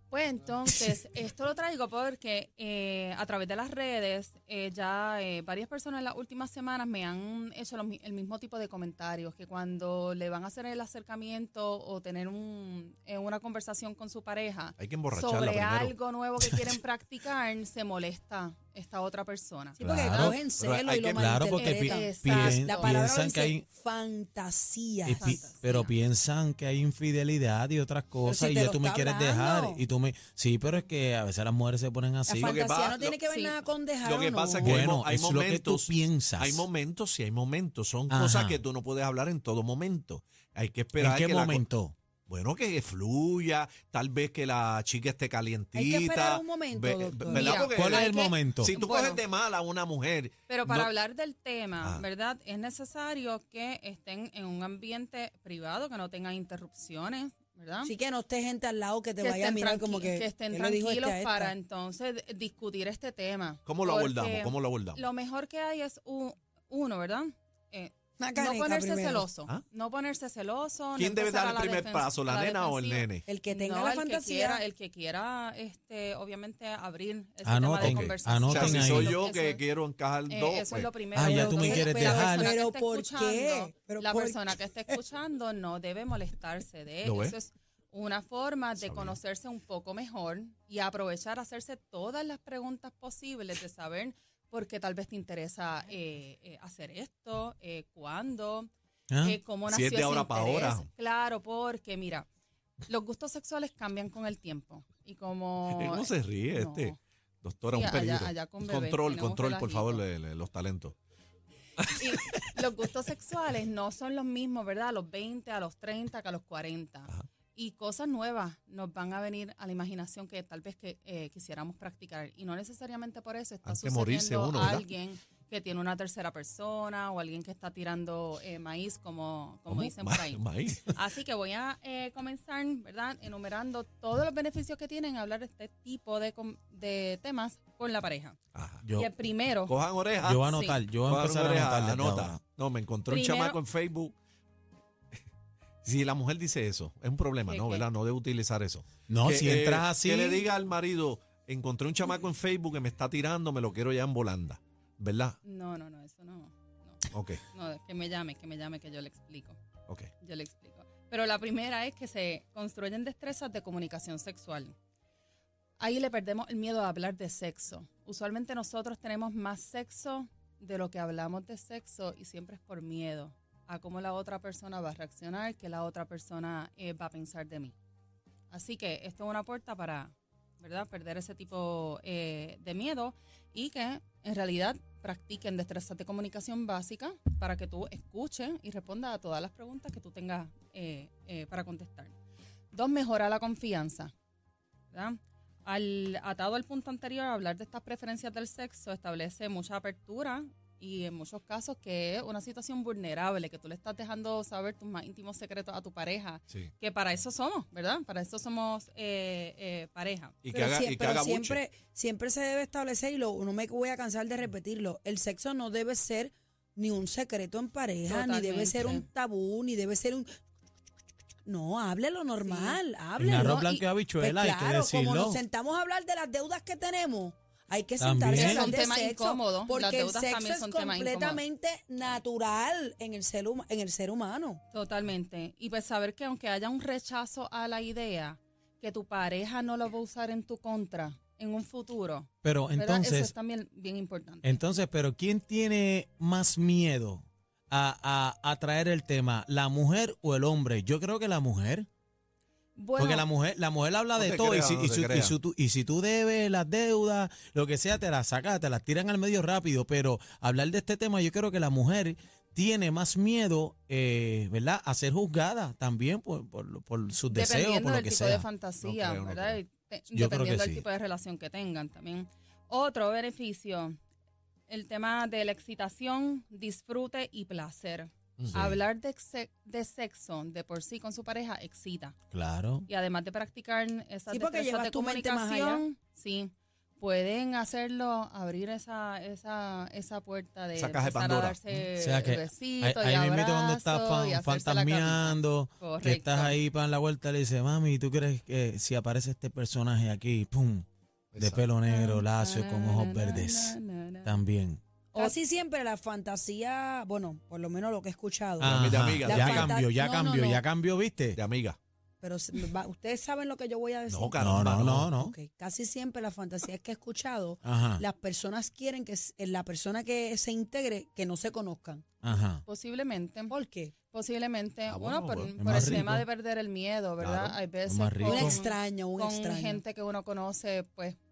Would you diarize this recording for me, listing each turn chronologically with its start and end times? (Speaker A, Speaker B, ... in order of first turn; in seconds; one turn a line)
Speaker A: 0.1-20.3
Speaker B: 14.8-15.9
Speaker C: 19.8-25.4
Speaker D: 19.8-20.4
Speaker B: 19.8-21.4
Speaker D: 21.1-23.6
Speaker A: 21.6-22.9
Speaker D: 25.0-32.6
Speaker A: 25.1-25.9
Speaker C: 28.2-29.8
Speaker C: 32.3-34.9
Speaker B: 32.3-33.2
Speaker A: 33.3-33.6
Speaker B: 34.0-41.6
Speaker D: 34.6-36.6
Speaker D: 38.1-38.6
Speaker D: 41.0-41.9
Speaker B: 42.3-50.9
Speaker C: 45.7-47.6
Speaker A: 47.3-49.2
Speaker D: 47.7-48.8
Speaker A: 50.5-57.9
Speaker C: 57.8-61.5
Speaker A: 59.2-79.6
Speaker B: 63.6-65.0
Speaker C: 68.2-69.3
Speaker B: 71.0-73.2
Speaker C: 73.3-74.6
Speaker D: 77.4-79.2
Speaker B: 77.8-80.9
Speaker A: 80.3-102.3
Speaker D: 81.1-82.5
Speaker C: 81.2-84.6
Speaker B: 87.0-87.3
Speaker B: 88.8-89.2
Speaker D: 99.1-99.4
Speaker B: 99.7-100.9
Speaker A: 102.9-107.0
Speaker B: 105.7-111.0
Speaker A: 107.7-110.0
Speaker A: 111.9-138.4
Speaker B: 123.6-124.9
Speaker B: 129.7-130.9
Speaker B: 138.5-138.8
Speaker D: 138.8-139.1
Speaker A: 138.9-139.7
Speaker B: 139.7-140.5
Speaker D: 140.2-142.4
Speaker A: 140.4-140.8
Speaker B: 141.0-144.1
Speaker A: 143.1-143.6
Speaker B: 145.8-155.4
Speaker A: 147.5-147.9
Speaker D: 149.1-150.4
Speaker A: 155.4-159.6
Speaker B: 157.1-157.4
Speaker A: 160.2-164.7
Speaker A: 165.8-177.7
Speaker A: 178.5-192.1
Speaker A: 192.7-194.1
Speaker A: 194.9-210.3
Speaker B: 210.4-211.6
Speaker C: 210.5-220.3
Speaker A: 218.1-219.0
Speaker C: 221.4-234.6
Speaker A: 222.4-222.8
Speaker D: 223.2-225.4
Speaker A: 223.4-223.8
Speaker D: 228.0-228.7
Speaker A: 228.3-231.4
Speaker A: 234.7-244.6
Speaker D: 242.4-243.3
Speaker D: 244.4-251.9
Speaker A: 252.8-253.3
Speaker D: 253.0-268.4
Speaker B: 254.2-255.3
Speaker A: 267.3-274.0
Speaker B: 268.8-269.6
Speaker D: 270.1-270.8
Speaker A: 274.7-282.1
Speaker B: 278.4-278.7
Speaker D: 282.3-282.9
Speaker A: 282.9-296.6
Speaker C: 284.3-285.8
Speaker B: 290.8-291.6
Speaker D: 291.7-300.9
Speaker B: 301.3-301.6
Speaker D: 301.4-304.8
Speaker A: 301.9-304.4
Speaker C: 305.2-310.6
Speaker B: 308.6-309.7
Speaker D: 308.6-311.4
Speaker B: 311.4-311.8
Speaker C: 312.2-322.0
Speaker B: 314.1-315.1
Speaker D: 314.4-315.3
Speaker D: 317.6-318.0
Speaker D: 322.2-322.6
Speaker A: 322.6-323.5
Speaker C: 323.5-323.9
Speaker A: 324.1-331.2
Speaker B: 324.9-326.1
Speaker D: 325.6-326.2
Speaker B: 327.2-327.6
Speaker D: 327.9-328.6
Speaker C: 328.3-329.8